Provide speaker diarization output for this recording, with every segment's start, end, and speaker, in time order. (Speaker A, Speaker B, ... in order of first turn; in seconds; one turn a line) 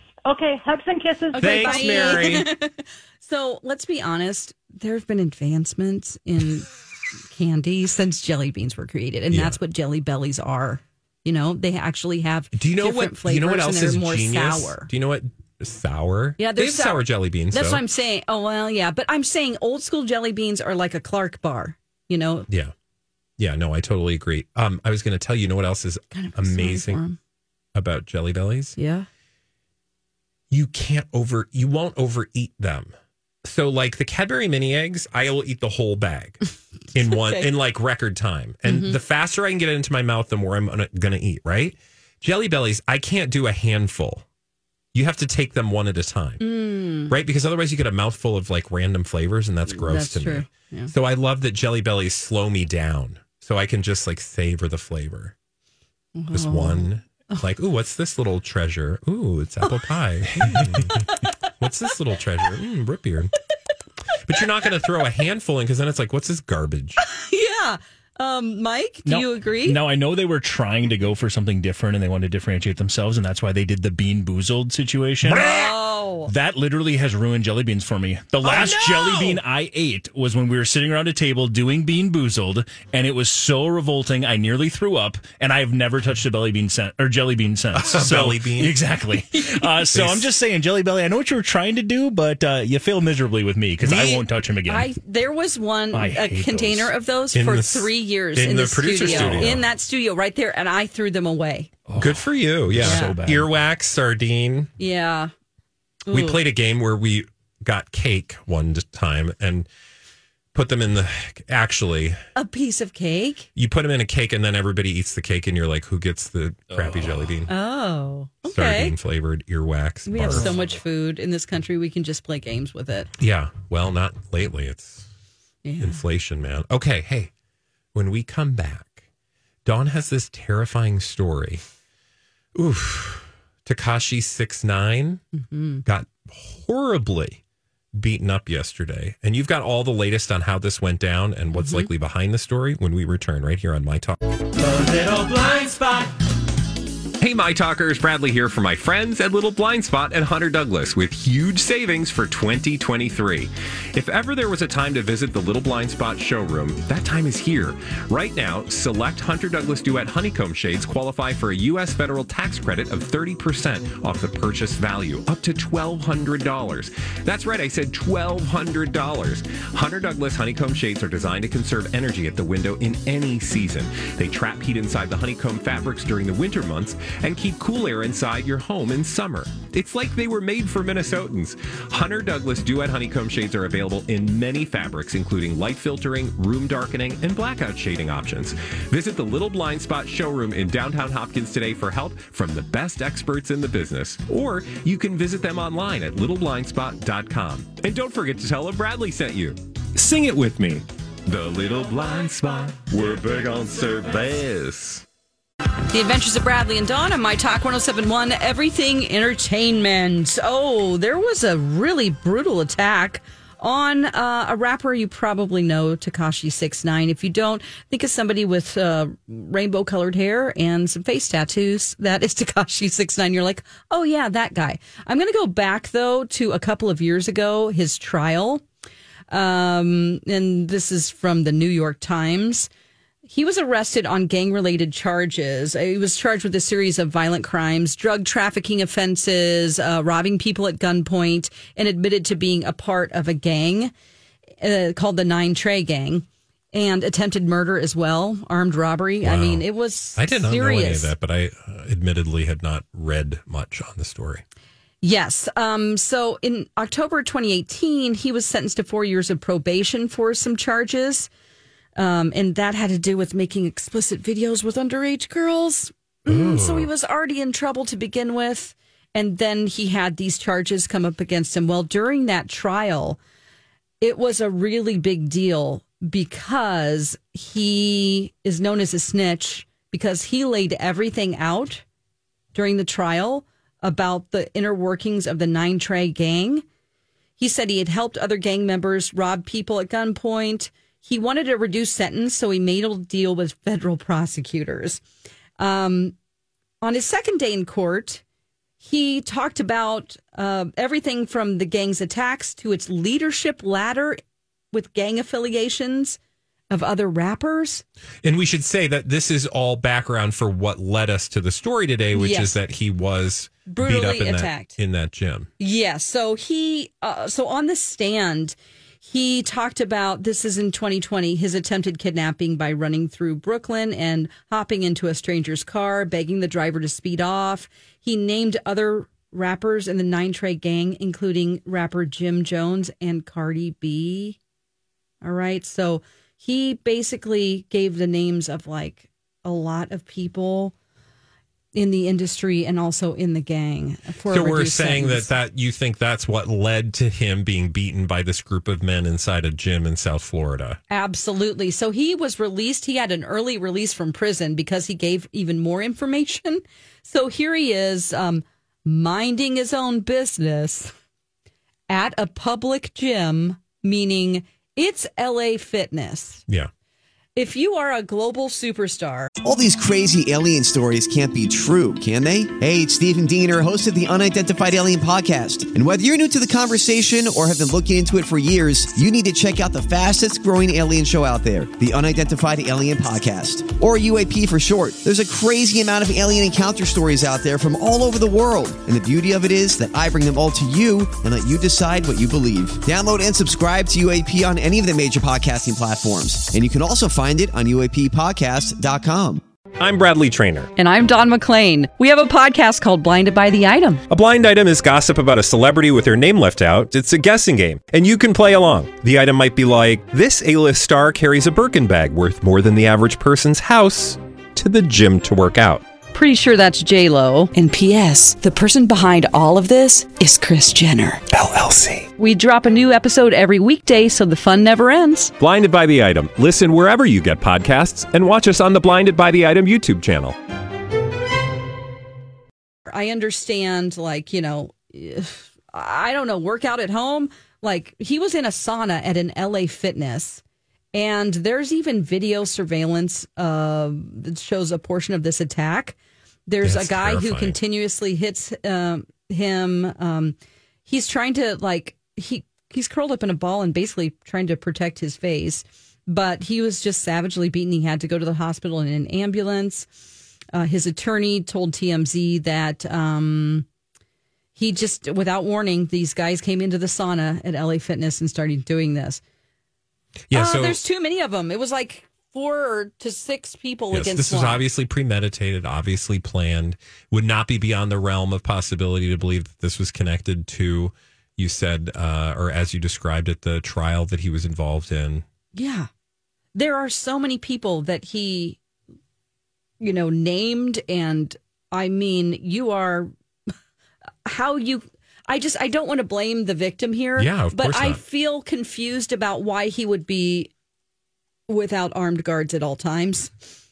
Speaker A: 0.3-2.5
Speaker B: 1.3-6.7
Speaker C: 1.4-2.5
Speaker B: 7.3-14.9
Speaker C: 9.3-9.6
Speaker C: 12.5-17.8
Speaker B: 16.4-22.5
Speaker C: 23.4-27.0
Speaker B: 26.1-27.1
Speaker C: 27.7-28.8
Speaker B: 28.8-29.1
Speaker C: 30.5-32.9
Speaker C: 33.4-36.4
Speaker C: 36.9-44.2
Speaker B: 37.0-37.5
Speaker B: 38.6-39.0
Speaker C: 44.9-46.4
Speaker B: 46.4-47.1
Speaker C: 47.1-55.3
Speaker B: 49.9-50.9
Speaker B: 56.1-57.4
Speaker C: 56.3-63.3
Speaker C: 64.2-67.0
Speaker B: 67.0-69.8
Speaker D: 69.0-94.9
Speaker B: 75.4-76.3
Speaker C: 78.4-79.4
Speaker C: 87.7-88.8
Speaker B: 89.4-89.7
Speaker C: 89.9-90.3
Speaker C: 93.8-94.2
Speaker B: 94.7-101.7
Speaker D: 95.9-96.9
Speaker C: 97.3-99.6
Speaker D: 99.1-99.6
Speaker D: 101.9-103.5
Speaker C: 102.0-104.7
Speaker B: 102.8-103.2
Speaker B: 104.8-105.3
Speaker B: 106.1-106.4
Speaker C: 106.1-109.7
Speaker C: 110.5-112.2
Speaker B: 112.3-113.5
Speaker C: 113.5-117.5
Speaker D: 116.7-117.3
Speaker B: 117.5-119.0
Speaker C: 118.5-120.6
Speaker B: 120.1-123.1
Speaker D: 120.2-120.7
Speaker C: 123.2-125.1
Speaker B: 125.6-126.0
Speaker C: 125.8-127.3
Speaker C: 127.9-129.0
Speaker C: 129.6-131.6
Speaker C: 132.5-135.2
Speaker B: 135.3-135.8
Speaker C: 135.8-137.4
Speaker C: 137.9-146.1
Speaker B: 141.6-141.9
Speaker C: 147.2-205.0
Speaker B: 205.9-228.6
Speaker B: 229.3-232.7
Speaker B: 233.2-243.9
Speaker B: 244.6-251.1
Speaker C: 249.2-249.6
Speaker C: 250.2-254.4
Speaker B: 255.0-261.3
Speaker B: 261.9-273.2
Speaker C: 266.3-266.9
Speaker B: 274.0-281.8
Speaker B: 282.5-286.6
Speaker B: 287.4-295.0
Speaker B: 295.6-296.1
Speaker B: 296.8-298.2
Speaker B: 298.8-304.2
Speaker B: 304.7-306.2
Speaker B: 306.7-307.8
Speaker C: 308.2-315.5
Speaker B: 312.1-312.6
Speaker B: 313.7-314.7
Speaker B: 315.6-334.4
Speaker B: 335.2-340.7
Speaker B: 341.7-345.3
Speaker C: 344.3-350.8
Speaker B: 350.9-360.9
Speaker B: 361.9-366.4
Speaker B: 367.4-369.3
Speaker E: 369.4-399.4
Speaker C: 399.8-400.7
Speaker B: 400.8-404.0
Speaker C: 404.1-415.8
Speaker B: 416.1-421.2
Speaker C: 421.3-422.1
Speaker B: 422.2-425.3
Speaker C: 425.4-430.4
Speaker B: 432.9-440.4
Speaker B: 440.9-445.9
Speaker B: 446.5-459.9
Speaker C: 446.6-447.6
Speaker B: 460.5-463.6
Speaker B: 464.6-469.2
Speaker C: 470.3-470.8
Speaker B: 470.3-474.6
Speaker C: 473.9-485.2
Speaker B: 485.5-485.9
Speaker B: 486.5-488.6
Speaker B: 489.8-493.1
Speaker B: 494.2-500.5
Speaker C: 497.2-498.0
Speaker B: 501.5-503.3